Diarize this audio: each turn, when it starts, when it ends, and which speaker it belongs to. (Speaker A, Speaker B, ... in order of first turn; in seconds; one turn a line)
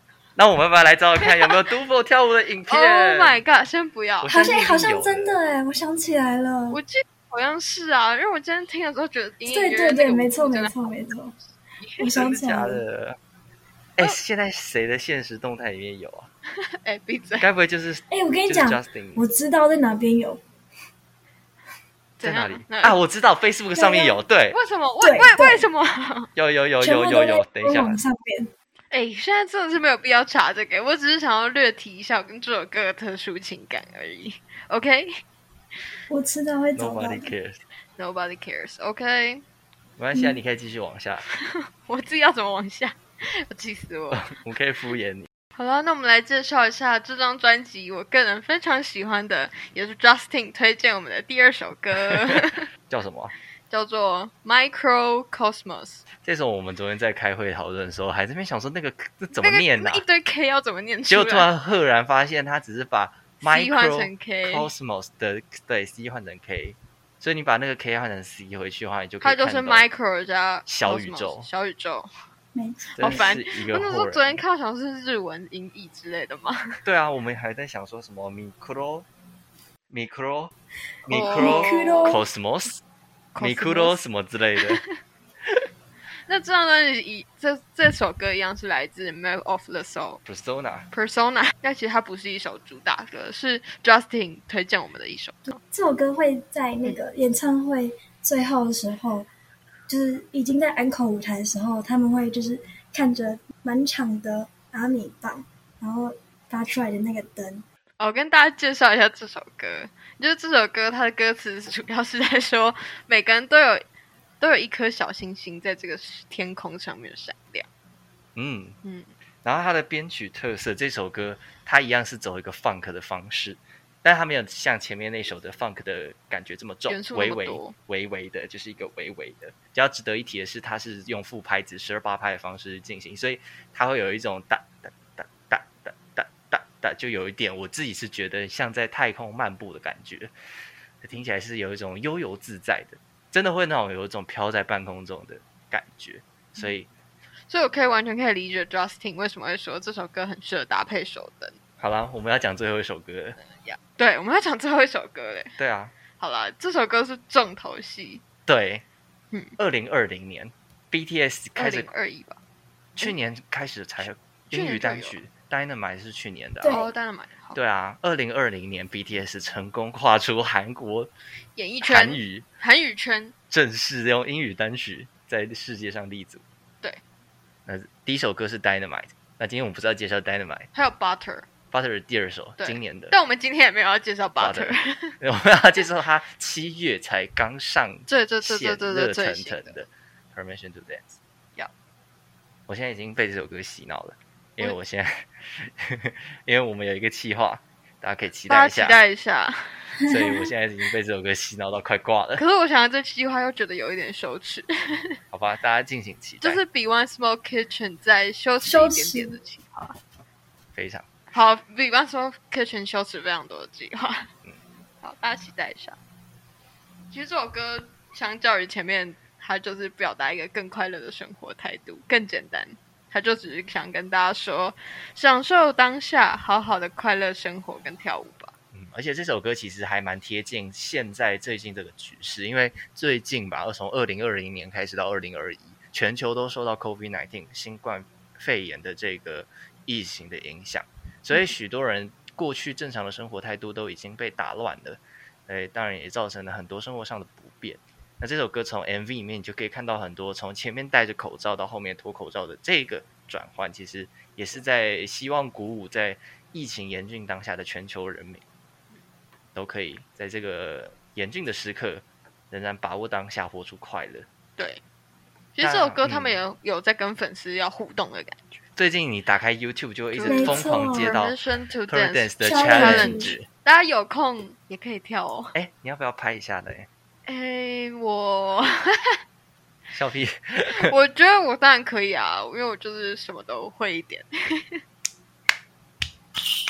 Speaker A: 0.4-3.4
Speaker B: 1.2-1.6
Speaker B: 2.7-4.7
Speaker A: 4.2-5.4
Speaker C: 4.3-6.8
Speaker B: 6.7-11.0
Speaker C: 9.5-11.3
Speaker B: 11.8-12.1
Speaker C: 12.0-12.8
Speaker A: 12.1-13.2
Speaker A: 14.0-16.3
Speaker B: 16.6-17.5
Speaker A: 17.4-19.2
Speaker C: 18.1-20.4
Speaker B: 22.2-23.0
Speaker A: 22.2-24.6
Speaker C: 23.8-24.2
Speaker B: 24.5-26.3
Speaker C: 25.0-25.7
Speaker A: 26.4-28.0
Speaker C: 26.8-28.5
Speaker B: 28.9-35.2
Speaker C: 36.1-37.3
Speaker A: 36.8-37.6
Speaker B: 38.0-39.4
Speaker A: 40.0-41.2
Speaker C: 40.1-40.4
Speaker B: 41.3-44.3
Speaker A: 44.1-45.3
Speaker B: 45.6-52.7
Speaker A: 52.1-53.3
Speaker B: 53.7-56.0
Speaker A: 56.2-60.0
Speaker B: 59.3-61.5
Speaker A: 61.1-69.9
Speaker B: 63.4-64.7
Speaker B: 69.2-72.2
Speaker A: 70.7-71.5
Speaker C: 72.5-73.4
Speaker A: 73.0-74.4
Speaker B: 73.0-76.8
Speaker A: 76.8-79.1
Speaker A: 79.9-80.5
Speaker A: 81.0-82.8
Speaker B: 81.1-82.2
Speaker C: 81.2-82.2
Speaker B: 83.3-84.0
Speaker A: 83.4-84.8
Speaker B: 84.6-84.9
Speaker B: 86.3-90.2
Speaker A: 90.2-90.9
Speaker B: 90.9-95.6
Speaker C: 95.5-99.3
Speaker C: 99.9-107.7
Speaker B: 108.0-113.8
Speaker B: 114.4-117.7
Speaker A: 118.4-118.8
Speaker B: 118.8-119.1
Speaker A: 119.4-140.3
Speaker B: 126.9-127.8
Speaker A: 141.0-146.9
Speaker B: 147.5-151.6
Speaker A: 151.8-153.4
Speaker B: 153.4-155.6
Speaker A: 155.6-155.9
Speaker B: 156.2-158.2
Speaker A: 158.5-158.8
Speaker A: 159.6-161.9
Speaker B: 161.6-162.4
Speaker A: 163.0-166.8
Speaker B: 164.5-165.2
Speaker C: 166.6-166.9
Speaker B: 166.6-167.6
Speaker A: 167.6-171.1
Speaker B: 171.6-173.3
Speaker A: 171.8-172.4
Speaker A: 173.5-176.4
Speaker A: 177.7-180.7
Speaker B: 180.7-181.5
Speaker A: 181.7-183.1
Speaker B: 182.6-185.2
Speaker A: 184.4-191.2
Speaker B: 188.1-189.8
Speaker A: 192.7-199.0
Speaker B: 198.5-199.9
Speaker C: 200.1-200.4
Speaker A: 200.1-202.4
Speaker B: 202.4-205.2
Speaker A: 205.3-206.6
Speaker B: 206.4-210.0
Speaker C: 208.6-209.3
Speaker A: 210.8-211.1
Speaker B: 211.3-214.3
Speaker B: 215.0-216.0
Speaker B: 217.1-228.5
Speaker A: 228.7-258.4
Speaker A: 259.6-264.3
Speaker B: 265.6-268.6
Speaker A: 265.6-266.4
Speaker A: 268.8-271.4
Speaker B: 270.1-275.6
Speaker C: 270.2-271.1
Speaker A: 271.9-273.5
Speaker C: 272.4-273.3
Speaker A: 275.6-276.9
Speaker B: 277.3-279.2
Speaker A: 279.9-280.9
Speaker B: 280.7-284.8